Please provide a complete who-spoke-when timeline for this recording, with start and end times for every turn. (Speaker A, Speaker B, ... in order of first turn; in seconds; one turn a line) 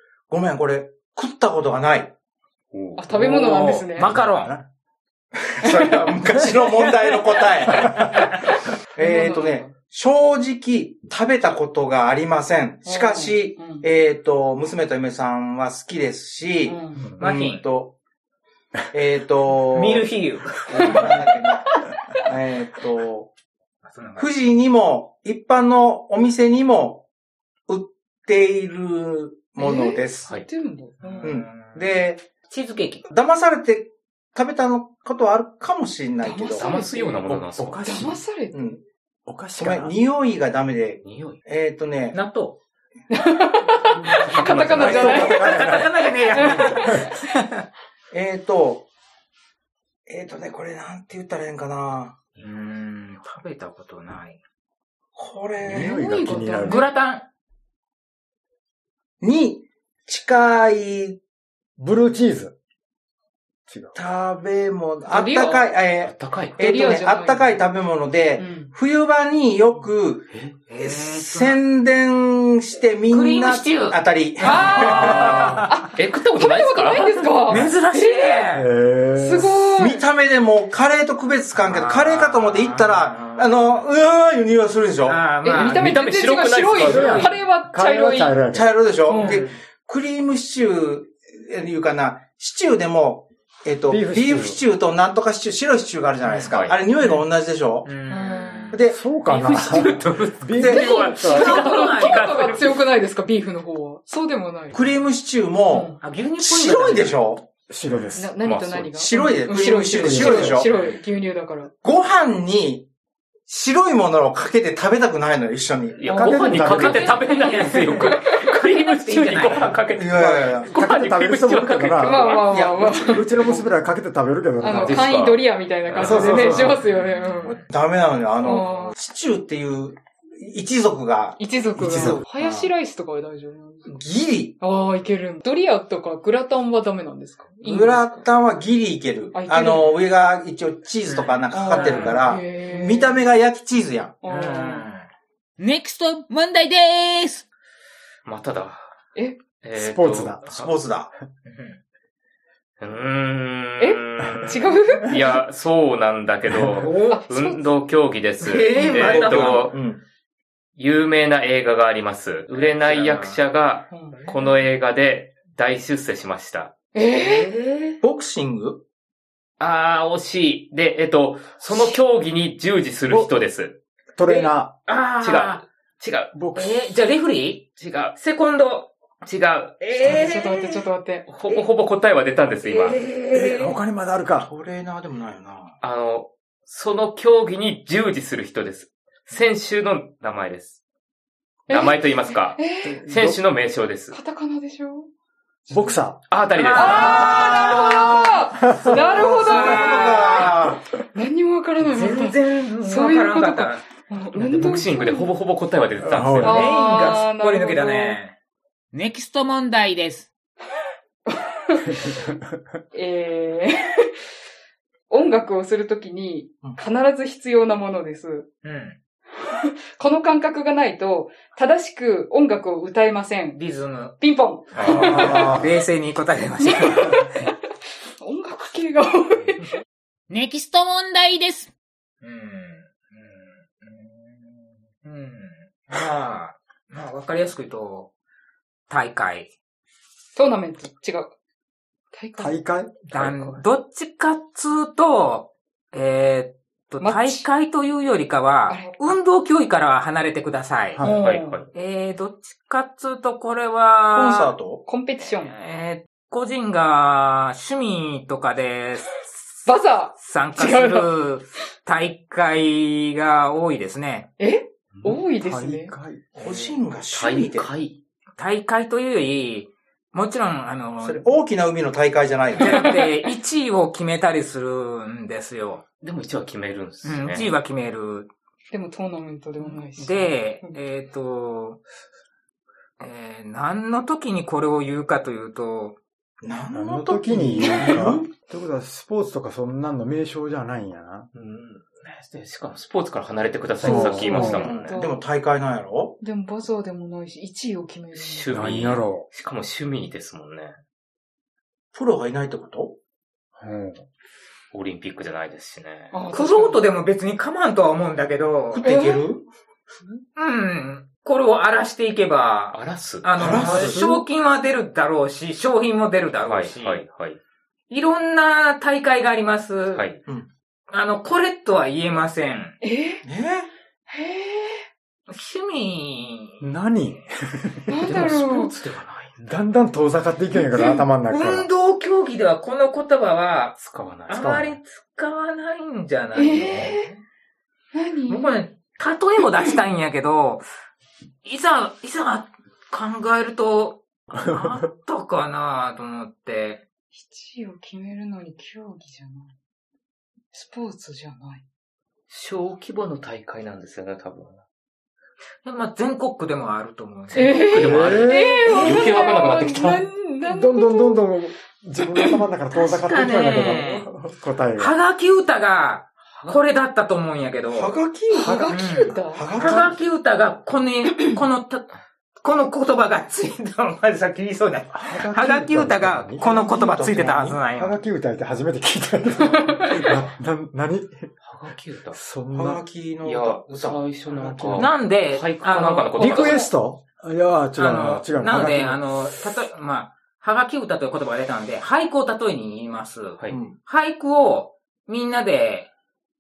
Speaker A: 0.3-2.1
Speaker B: 2.7-3.0
Speaker C: 3.0-4.2
Speaker D: 3.1-4.6
Speaker E: 4.0-4.6
Speaker A: 5.4-8.3
Speaker D: 8.0-8.3
Speaker A: 9.0-17.9
Speaker C: 9.0-9.8
Speaker C: 12.8-13.9
Speaker C: 16.6-17.1
Speaker D: 17.2-17.6
Speaker A: 18.9-20.1
Speaker D: 19.7-21.2
Speaker A: 20.7-23.3
Speaker D: 23.8-24.3
Speaker A: 24.2-27.1
Speaker A: 27.7-30.3
Speaker C: 29.6-31.3
Speaker D: 31.0-33.1
Speaker A: 31.2-32.3
Speaker A: 33.1-36.7
Speaker C: 36.2-38.8
Speaker B: 36.5-37.8
Speaker E: 37.3-38.2
Speaker A: 38.5-38.8
Speaker E: 39.3-40.0
Speaker A: 39.6-42.2
Speaker B: 41.0-41.4
Speaker D: 42.1-42.6
Speaker C: 43.1-47.2
Speaker B: 44.1-45.2
Speaker E: 44.2-45.9
Speaker D: 44.3-47.6
Speaker A: 48.1-48.9
Speaker A: 50.1-52.2
Speaker D: 52.4-54.4
Speaker A: 55.1-56.0
Speaker E: 55.6-56.9
Speaker C: 55.7-56.9
Speaker D: 56.6-57.3
Speaker A: 59.2-61.2
Speaker E: 61.8-62.5
Speaker E: 63.7-64.0
Speaker A: 63.9-75.6
Speaker C: 65.1-65.8
Speaker B: 66.0-66.6
Speaker C: 66.6-67.6
Speaker C: 68.4-68.7
Speaker D: 70.7-71.6
Speaker D: 73.1-74.0
Speaker C: 74.4-78.5
Speaker D: 74.9-75.2
Speaker E: 75.0-75.7
Speaker B: 75.1-77.3
Speaker D: 77.5-78.7
Speaker E: 78.5-79.8
Speaker C: 79.2-80.0
Speaker A: 79.8-85.3
Speaker D: 81.5-83.3
Speaker B: 83.4-83.8
Speaker D: 85.1-86.2
Speaker C: 85.4-88.4
Speaker B: 85.6-87.3
Speaker D: 86.8-87.3
Speaker E: 86.8-88.8
Speaker A: 88.5-98.0
Speaker C: 89.1-89.5
Speaker D: 89.1-89.5
Speaker E: 93.9-94.6
Speaker B: 96.3-96.8
Speaker D: 97.8-98.8
Speaker C: 98.1-98.8
Speaker A: 98.7-99.0
Speaker E: 98.9-101.6
Speaker B: 99.3-102.8
Speaker A: 100.6-101.0
Speaker D: 100.6-102.6
Speaker C: 100.6-104.8
Speaker A: 104.7-107.5
Speaker C: 105.7-106.0
Speaker D: 106.0-107.2
Speaker E: 107.7-108.3
Speaker B: 107.9-108.9
Speaker C: 108.2-111.7
Speaker A: 109.0-110.7
Speaker E: 110.0-110.7
Speaker A: 111.8-112.9
Speaker A: 113.5-116.1
Speaker B: 116.0-122.7
Speaker E: 116.1-117.2
Speaker D: 116.6-119.8
Speaker C: 116.9-118.6
Speaker A: 119.9-120.8
Speaker E: 120.7-122.3
Speaker C: 122.0-123.6
Speaker A: 122.5-123.2
Speaker E: 123.0-125.2
Speaker B: 124.6-126.6
Speaker C: 124.6-127.6
Speaker E: 126.0-126.8
Speaker D: 126.7-127.7
Speaker A: 127.6-131.4
Speaker C: 128.4-128.9
Speaker C: 131.4-133.9
Speaker E: 131.8-132.2
Speaker A: 132.0-132.6
Speaker A: 133.9-134.6
Speaker C: 134.6-138.3
Speaker A: 137.6-144.2
Speaker C: 139.3-140.0
Speaker D: 141.1-142.2
Speaker C: 141.5-143.2
Speaker C: 144.2-144.8
Speaker D: 144.3-145.1
Speaker F: 145.6-147.4
Speaker B: 148.3-148.9
Speaker C: 149.2-149.4
Speaker B: 149.6-150.7
Speaker E: 149.8-150.5
Speaker A: 150.5-151.1
Speaker D: 151.4-151.8
Speaker B: 152.8-159.8
Speaker C: 153.8-155.4
Speaker E: 154.2-154.5
Speaker D: 156.6-157.2
Speaker C: 157.1-157.8
Speaker D: 158.4-159.7
Speaker A: 158.9-160.0
Speaker B: 160.8-166.7
Speaker D: 162.6-163.4
Speaker C: 163.9-164.3
Speaker D: 164.1-164.4
Speaker C: 166.9-167.5
Speaker D: 167.2-168.0
Speaker A: 168.0-168.8
Speaker B: 169.6-173.8
Speaker D: 171.7-171.9
Speaker E: 174.2-174.7
Speaker D: 174.3-175.6
Speaker B: 175.2-176.3
Speaker E: 176.3-176.9
Speaker D: 176.5-178.9
Speaker B: 177.8-178.2
Speaker B: 179.2-179.8
Speaker D: 179.8-180.8
Speaker C: 180.0-181.3
Speaker B: 181.3-183.0
Speaker D: 182.6-183.7
Speaker E: 183.3-184.5
Speaker A: 184.4-185.8
Speaker B: 185.8-190.8
Speaker B: 191.7-194.2
Speaker C: 191.7-193.0
Speaker E: 192.8-193.4
Speaker C: 194.1-195.1
Speaker E: 195.7-196.2
Speaker B: 196.3-197.8
Speaker D: 196.6-198.2
Speaker C: 196.6-200.6
Speaker A: 196.8-197.9
Speaker E: 198.6-199.3
Speaker A: 199.0-200.8
Speaker D: 199.2-200.6
Speaker C: 201.1-205.3
Speaker D: 201.8-203.8
Speaker B: 204.4-206.7
Speaker E: 204.4-204.8
Speaker E: 206.0-206.7
Speaker C: 206.4-208.2
Speaker D: 206.4-208.3
Speaker F: 208.9-210.3
Speaker C: 211.3-212.2
Speaker C: 212.9-214.1
Speaker C: 215.1-218.5
Speaker D: 218.6-219.0
Speaker C: 219.4-223.6
Speaker D: 223.6-224.2
Speaker C: 224.2-225.7
Speaker B: 224.8-225.5
Speaker D: 224.8-227.2
Speaker E: 224.9-225.7
Speaker C: 226.6-227.6
Speaker C: 228.2-229.7
Speaker F: 230.3-231.7
Speaker D: 232.2-238.1
Speaker D: 238.9-239.5
Speaker C: 240.3-241.3
Speaker C: 242.1-242.6
Speaker E: 242.4-243.6
Speaker D: 243.1-251.0
Speaker C: 247.0-247.5
Speaker C: 248.7-249.2
Speaker E: 251.0-251.2
Speaker C: 251.0-251.6
Speaker B: 251.0-251.7
Speaker D: 251.7-254.6
Speaker A: 254.1-254.8
Speaker C: 254.9-255.5
Speaker D: 255.4-259.3
Speaker C: 259.6-261.1
Speaker D: 260.2-264.3
Speaker C: 264.4-265.9
Speaker E: 265.4-266.2
Speaker A: 266.4-267.7
Speaker B: 266.4-268.0
Speaker D: 268.4-271.2
Speaker A: 271.0-272.8
Speaker D: 272.6-275.8
Speaker C: 272.8-273.2
Speaker B: 276.0-277.5
Speaker D: 277.0-278.3
Speaker C: 278.7-280.8
Speaker D: 279.6-281.8
Speaker D: 283.0-286.0
Speaker A: 286.4-288.3
Speaker E: 286.7-291.3
Speaker B: 291.3-295.0
Speaker E: 293.8-294.7
Speaker C: 293.9-295.2
Speaker A: 294.1-296.2
Speaker C: 296.2-298.5
Speaker B: 298.1-300.8
Speaker E: 298.5-299.3
Speaker A: 301.9-303.0
Speaker E: 303.6-304.0
Speaker B: 304.7-306.1
Speaker C: 306.1-306.8
Speaker D: 306.3-308.9
Speaker A: 308.7-309.4
Speaker C: 308.8-309.2
Speaker D: 310.4-317.0
Speaker B: 312.7-313.8
Speaker A: 313.4-314.0
Speaker E: 313.4-314.2
Speaker B: 316.4-317.4
Speaker D: 317.9-320.1
Speaker B: 319.9-320.2
Speaker D: 320.9-322.8
Speaker C: 322.8-323.2
Speaker A: 323.2-323.7
Speaker C: 324.1-324.9
Speaker D: 325.3-326.7
Speaker E: 326.6-328.0
Speaker C: 327.9-328.7
Speaker B: 328.0-329.4
Speaker E: 329.4-331.7
Speaker D: 331.3-337.1
Speaker B: 333.8-334.5
Speaker E: 334.3-334.8
Speaker C: 336.3-337.1
Speaker C: 337.9-338.6
Speaker D: 338.3-340.7
Speaker D: 341.4-346.8
Speaker C: 347.1-349.5
Speaker C: 350.5-351.6
Speaker B: 352.3-354.6
Speaker D: 355.6-358.1
Speaker B: 357.3-360.1
Speaker C: 357.3-361.2
Speaker E: 357.8-358.6
Speaker D: 358.6-359.4
Speaker E: 360.5-364.9
Speaker D: 362.7-364.1
Speaker D: 364.8-368.0
Speaker A: 367.7-370.0
Speaker C: 368.3-369.5
Speaker E: 368.4-368.7
Speaker D: 368.7-378.0
Speaker E: 374.9-376.5
Speaker A: 376.4-377.6
Speaker E: 377.7-381.3
Speaker C: 379.4-380.2
Speaker B: 381.4-382.2
Speaker E: 382.1-382.8
Speaker A: 382.5-384.9
Speaker B: 383.2-386.6
Speaker D: 384.8-386.6
Speaker C: 386.1-386.7
Speaker E: 386.2-389.2
Speaker D: 387.8-395.9
Speaker A: 393.5-393.8